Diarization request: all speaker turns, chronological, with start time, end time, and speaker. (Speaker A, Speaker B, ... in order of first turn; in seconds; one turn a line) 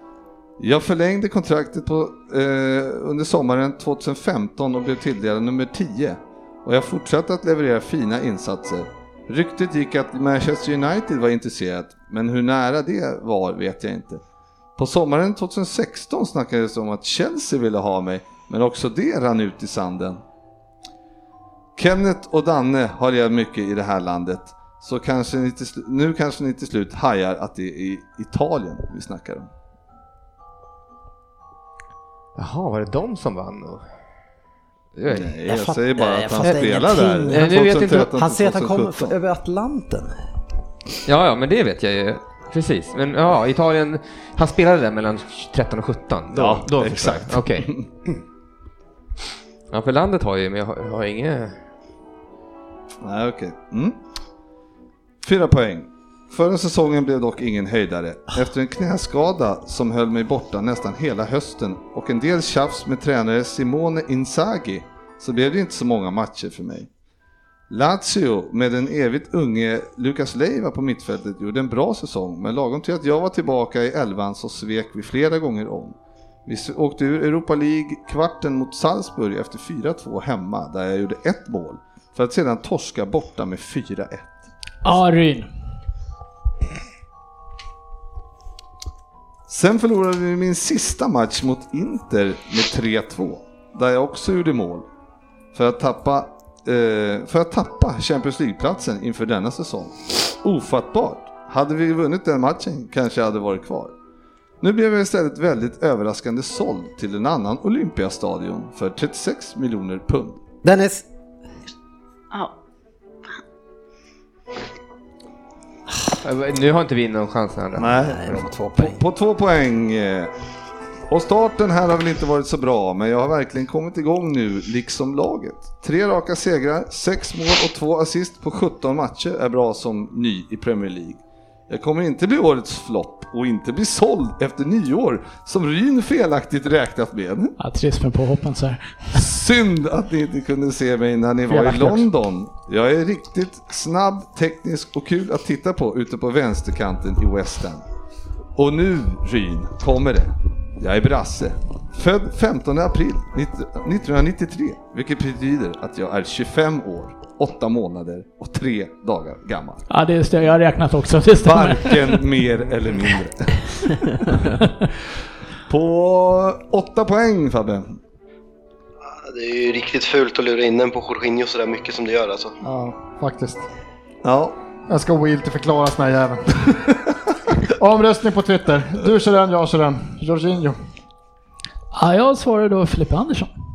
Speaker A: 0.6-14.2
Speaker A: 14.8-20.2
Speaker A: 21.8-29.5
Speaker B: 32.4-33.9
Speaker B: 35.0-35.3
Speaker A: 35.1-39.1
Speaker C: 35.5-40.1
Speaker B: 37.3-38.1
Speaker B: 41.0-48.2
Speaker A: 46.3-47.9
Speaker B: 49.7-51.6
Speaker A: 53.0-54.0
Speaker A: 55.2-66.9
Speaker A: 67.7-84.3
Speaker D: 84.8-85.5
Speaker A: 89.5-94.8
Speaker A: 95.5-103.9
Speaker A: 104.6-110.4
Speaker C: 110.6-111.0
Speaker B: 116.2-118.0
Speaker A: 117.8-120.3
Speaker C: 118.0-119.0
Speaker A: 121.1-137.6
Speaker D: 137.6-139.0
Speaker A: 139.1-147.8
Speaker D: 141.5-142.1
Speaker A: 148.6-159.8
Speaker D: 159.9-162.3
Speaker A: 161.4-164.6
Speaker A: 165.7-168.0
Speaker E: 169.1-172.6
Speaker F: 172.6-173.6
Speaker A: 174.2-174.6
Speaker F: 174.9-177.0
Speaker F: 177.7-180.8
Speaker D: 181.9-183.5